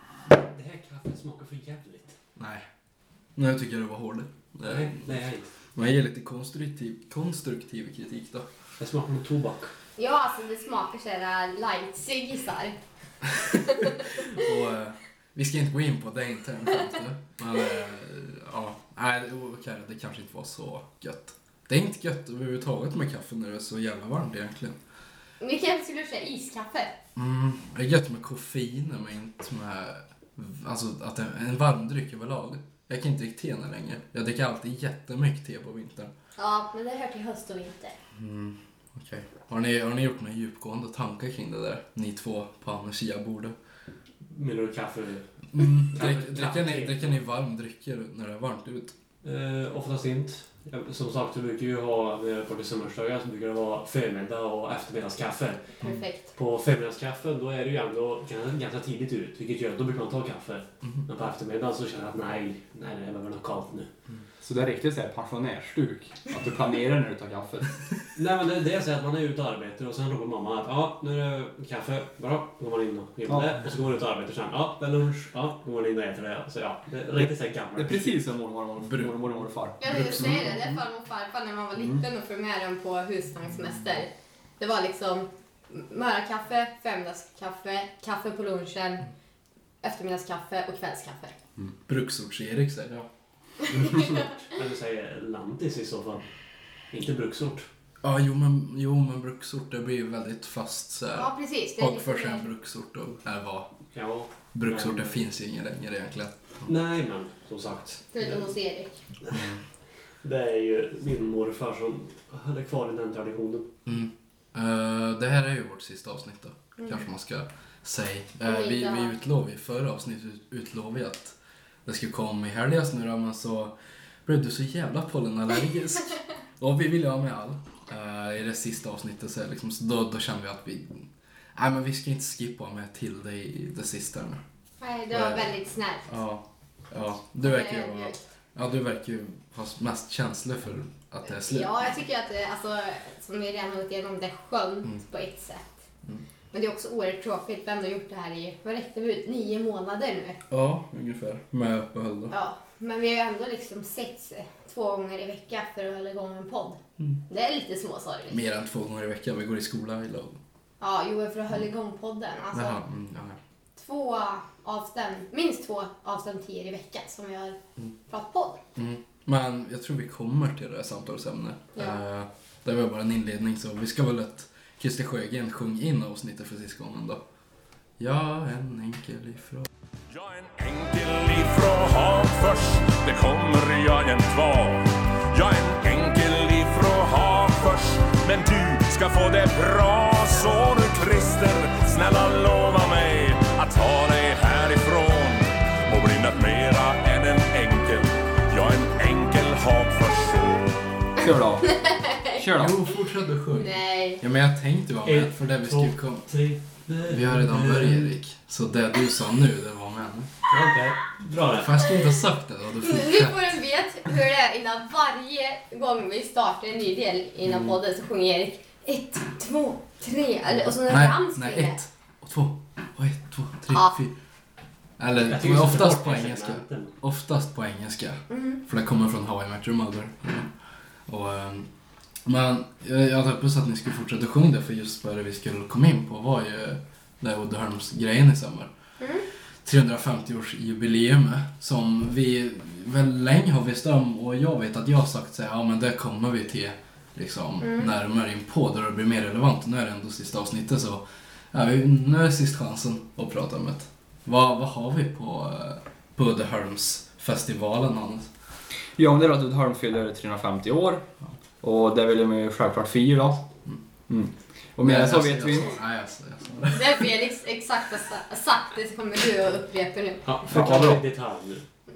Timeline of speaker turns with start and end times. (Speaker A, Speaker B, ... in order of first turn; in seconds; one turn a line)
Speaker A: 0.3-2.1
Speaker B: 2.4-2.6
Speaker B: 3.4-5.1
Speaker A: 4.7-5.5
Speaker B: 5.7-8.5
Speaker A: 8.8-9.7
Speaker C: 10.0-12.8
Speaker B: 13.3-24.8
Speaker C: 25.4-26.9
Speaker B: 27.1-36.1
Speaker C: 36.4-38.0
Speaker B: 38.1-43.5
Speaker A: 44.3-45.2
Speaker B: 45.5-48.9
Speaker A: 45.9-47.1
Speaker A: 49.2-55.8
Speaker C: 55.8-56.3
Speaker A: 56.3-63.9
Speaker D: 64.4-67.8
Speaker A: 68.2-78.2
Speaker D: 73.3-73.6
Speaker D: 77.8-79.8
Speaker B: 78.9-79.1
Speaker C: 79.8-89.1
Speaker B: 79.8-80.7
Speaker C: 89.8-91.3
Speaker B: 91.9-93.1
Speaker C: 93.7-94.2
Speaker A: 94.1-96.2
Speaker A: 96.9-97.7
Speaker B: 98.0-103.7
Speaker C: 101.1-102.4
Speaker A: 103.9-105.2
Speaker B: 104.5-106.7
Speaker A: 106.7-108.0
Speaker C: 108.1-109.0
Speaker B: 109.3-109.6
Speaker A: 110.2-113.7
Speaker B: 113.8-121.3
Speaker C: 118.4-119.1
Speaker B: 121.8-123.7
Speaker B: 124.2-134.4
Speaker C: 134.8-136.1
Speaker B: 135.1-135.5
Speaker B: 136.1-141.8
Speaker C: 137.4-138.2
Speaker C: 141.3-145.8
Speaker C: 146.5-150.4
Speaker B: 150.5-152.3
Speaker C: 152.3-158.4
Speaker B: 158.3-160.4
Speaker C: 160.8-162.8
Speaker B: 162.5-163.4
Speaker C: 163.8-167.6
Speaker C: 168.1-168.6
Speaker B: 168.8-177.2
Speaker C: 171.7-172.0
Speaker B: 178.0-179.7
Speaker E: 180.1-200.8
Speaker D: 201.2-201.7
Speaker C: 201.6-202.4
Speaker D: 202.4-202.8
Speaker B: 202.5-206.3
Speaker C: 203.6-204.2
Speaker A: 205.1-208.1
Speaker B: 207.0-210.3
Speaker A: 210.5-211.8
Speaker B: 211.5-213.4
Speaker C: 212.8-221.8
Speaker B: 217.4-217.8
Speaker B: 220.7-224.1
Speaker B: 225.0-230.5
Speaker A: 225.2-226.9
Speaker C: 228.3-228.6
Speaker B: 231.1-231.7
Speaker B: 232.2-238.7
Speaker C: 239.0-239.2
Speaker B: 239.6-258.3
Speaker C: 247.6-247.9
Speaker D: 259.0-261.0
Speaker D: 261.6-263.4
Speaker D: 264.1-265.7
Speaker B: 264.8-267.1
Speaker C: 266.7-270.2
Speaker A: 270.2-271.6
Speaker D: 270.5-271.0